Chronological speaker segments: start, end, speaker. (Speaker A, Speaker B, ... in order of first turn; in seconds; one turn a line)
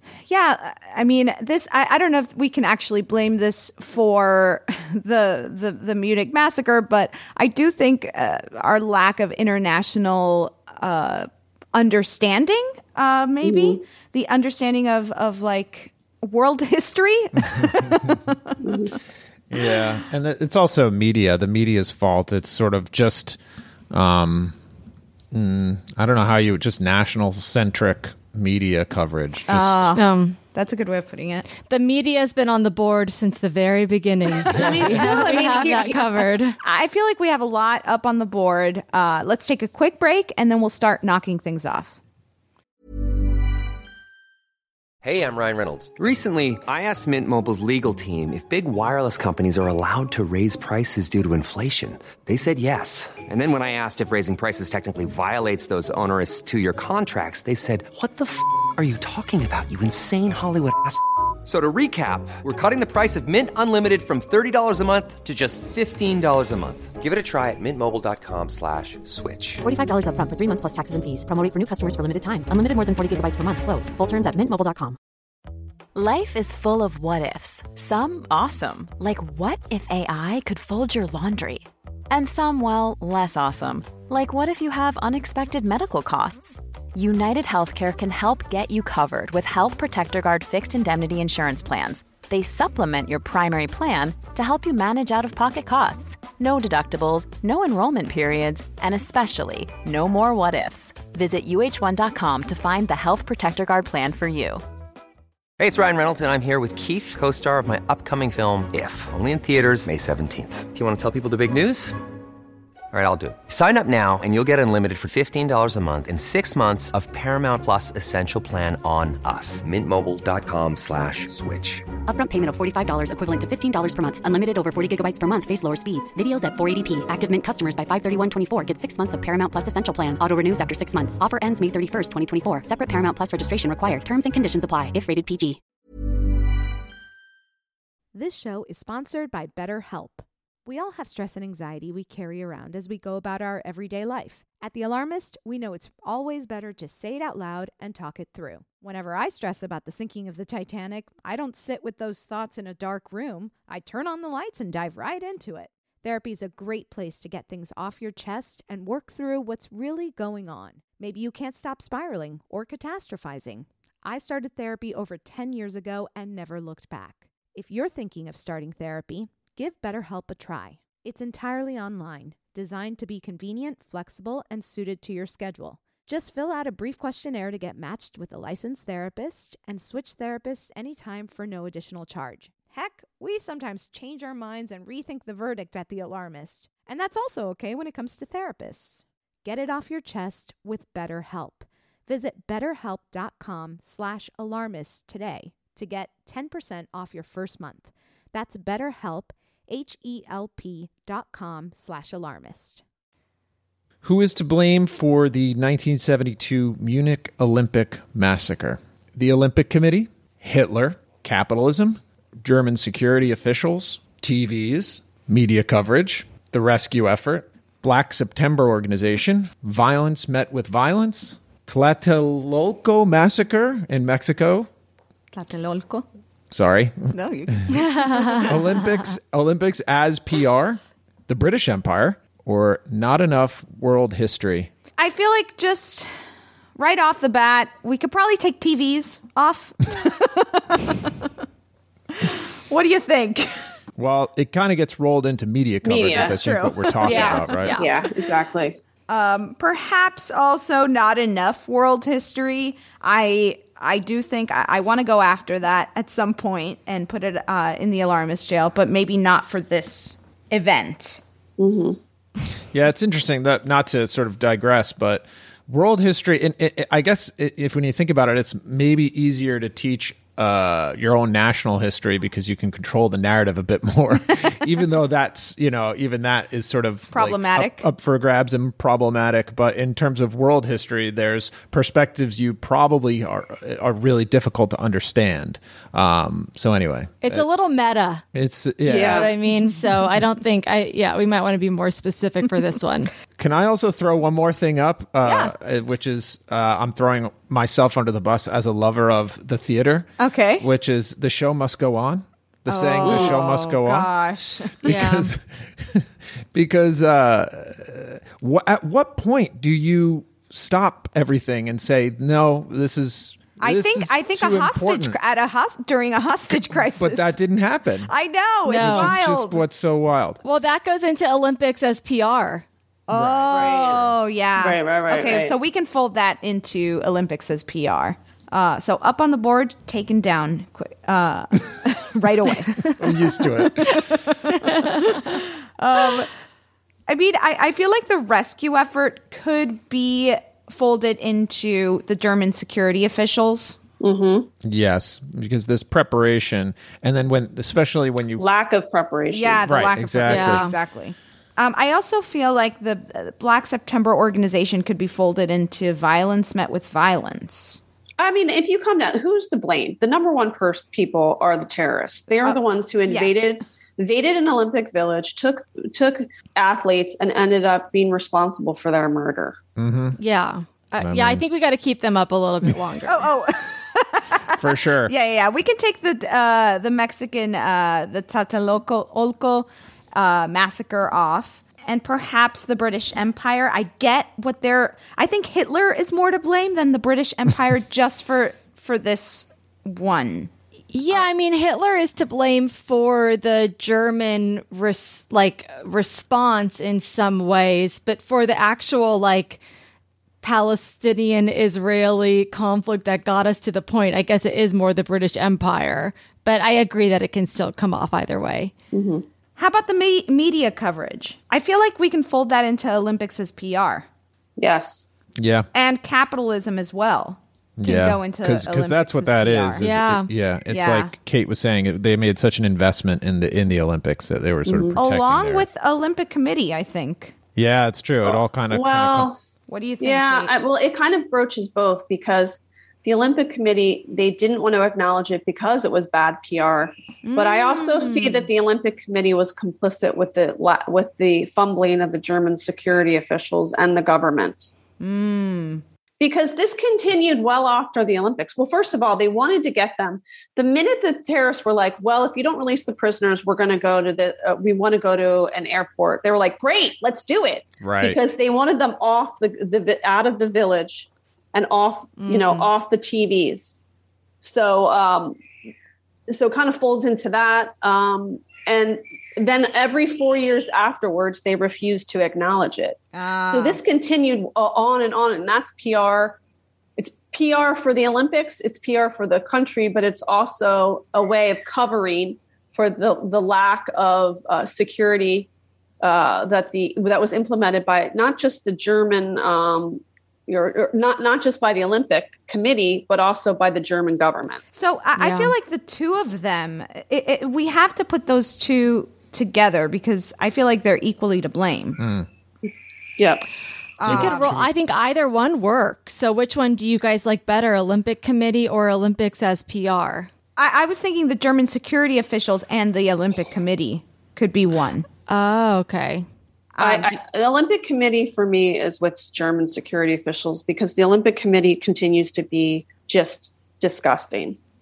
Speaker A: 0.3-18.6
Speaker B: 13.4-13.8
Speaker C: 17.4-18.2
Speaker B: 18.6-18.9
Speaker C: 19.5-23.4
Speaker C: 23.9-24.6
Speaker C: 25.3-29.9
Speaker A: 29.5-31.4
Speaker D: 29.9-30.4
Speaker D: 31.6-36.6
Speaker B: 34.5-36.2
Speaker C: 34.5-34.8
Speaker A: 34.5-36.0
Speaker A: 36.6-42.0
Speaker E: 45.0-69.6
Speaker F: 69.6-75.0
Speaker G: 75.9-104.6
Speaker E: 105.6-112.0
Speaker E: 112.9-121.9
Speaker F: 122.1-135.6
Speaker A: 138.1-202.8
Speaker C: 204.0-224.7
Speaker A: 225.3-226.1
Speaker C: 226.5-227.1
Speaker A: 227.1-228.9
Speaker D: 227.7-228.5
Speaker C: 228.4-234.7
Speaker A: 235.0-236.1
Speaker A: 236.8-241.1
Speaker A: 242.2-243.7
Speaker C: 244.0-247.8
Speaker B: 245.8-246.4
Speaker A: 246.1-247.7
Speaker D: 247.0-247.9
Speaker B: 247.1-248.8
Speaker A: 249.1-261.2
Speaker B: 261.6-262.0
Speaker C: 262.7-287.4
Speaker A: 277.1-277.9
Speaker D: 287.2-288.2
Speaker C: 288.3-289.3
Speaker B: 288.9-289.3
Speaker D: 288.9-293.1
Speaker C: 293.4-300.1
Speaker A: 295.2-295.5
Speaker A: 300.2-300.6
Speaker C: 300.6-304.1
Speaker A: 302.7-305.0
Speaker B: 303.0-303.4
Speaker C: 304.8-315.2
Speaker D: 304.8-305.3
Speaker A: 313.6-317.4
Speaker C: 316.9-318.1
Speaker A: 318.1-319.6
Speaker D: 318.6-319.2
Speaker C: 318.7-320.4
Speaker D: 320.4-322.6
Speaker A: 323.1-336.3
Speaker C: 323.1-324.0
Speaker B: 323.5-325.6
Speaker C: 333.0-334.2
Speaker D: 334.6-335.1
Speaker A: 337.1-343.8
Speaker B: 344.0-344.5
Speaker C: 344.6-348.4
Speaker B: 348.4-349.8
Speaker A: 349.3-357.8
Speaker C: 349.6-350.6
Speaker D: 350.2-350.8
Speaker B: 358.2-369.6
Speaker A: 362.4-363.5
Speaker C: 369.8-370.2
Speaker D: 370.1-373.3
Speaker C: 371.0-371.4
Speaker A: 373.0-390.5
Speaker C: 374.5-375.1
Speaker D: 390.9-399.6
Speaker D: 400.4-408.7
Speaker B: 408.9-409.2
Speaker A: 409.6-414.1
Speaker B: 414.6-415.1
Speaker C: 415.4-415.7
Speaker A: 415.7-419.8
Speaker C: 417.8-425.6
Speaker D: 419.8-420.3
Speaker A: 420.7-421.1
Speaker B: 424.6-425.0
Speaker A: 424.9-427.3
Speaker C: 427.6-429.3
Speaker B: 428.2-429.4
Speaker A: 429.7-430.5
Speaker B: 430.0-444.7
Speaker A: 437.2-438.5
Speaker A: 445.0-445.8
Speaker B: 446.2-463.8
Speaker C: 457.8-458.2
Speaker D: 462.2-462.7
Speaker B: 464.4-465.4
Speaker B: 466.3-476.4
Speaker A: 473.1-473.8
Speaker B: 477.0-485.5
Speaker B: 486.0-494.6
Speaker A: 494.7-502.0
Speaker D: 495.2-495.5
Speaker C: 502.0-502.3
Speaker A: 504.0-504.4
Speaker D: 504.0-510.3
Speaker C: 504.1-504.7
Speaker A: 510.6-515.1
Speaker D: 515.3-516.2
Speaker A: 516.7-517.1
Speaker B: 516.8-524.6